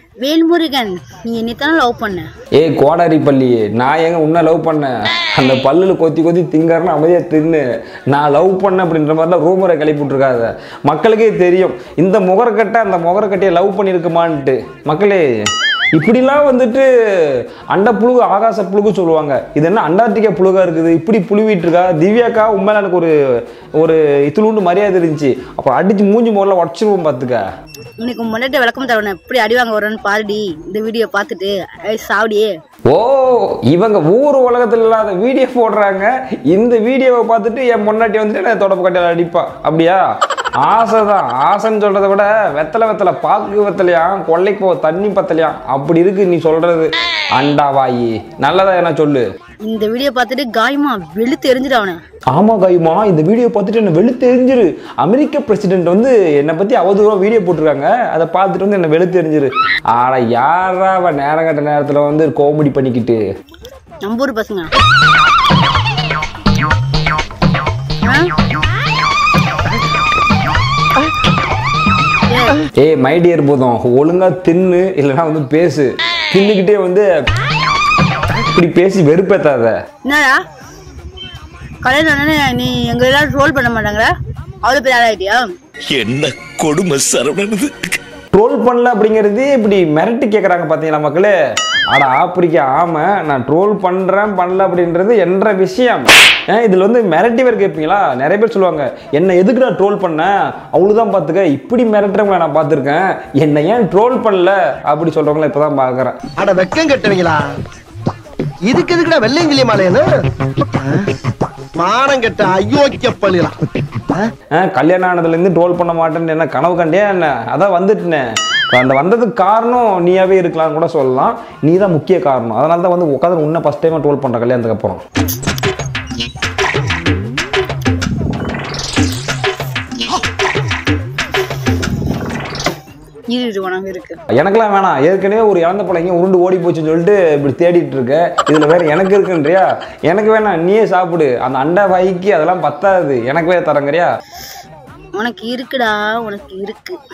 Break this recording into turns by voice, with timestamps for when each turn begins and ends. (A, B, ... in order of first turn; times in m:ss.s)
0:00.2-0:02.3 A
0:02.5-0:15.2 B
0:15.9-0:23.1 B
0:23.8-0:27.4 B
0:28.0-0:32.5 A
0:32.9-0:40.0 B
0:40.6-0:49.2 B
0:49.6-0:52.0 A
0:52.3-1:03.2 B
1:04.0-1:04.7 A
1:08.0-1:08.3 A
1:12.3-1:12.6 A
1:12.8-1:17.1 B
1:18.3-1:19.8 B
1:20.0-1:20.4 A
1:21.8-1:24.1 A
1:24.6-1:25.4 A
1:25.9-1:28.0 C
1:28.3-1:31.3 B
1:31.9-1:46.2 B
1:46.4-1:47.6 D
1:48.6-1:51.0 D
1:51.7-1:54.3 D
1:54.5-2:05.0 B
2:13.3-2:14.2 A
2:14.3-2:24.1 B
2:25.2-2:27.0 A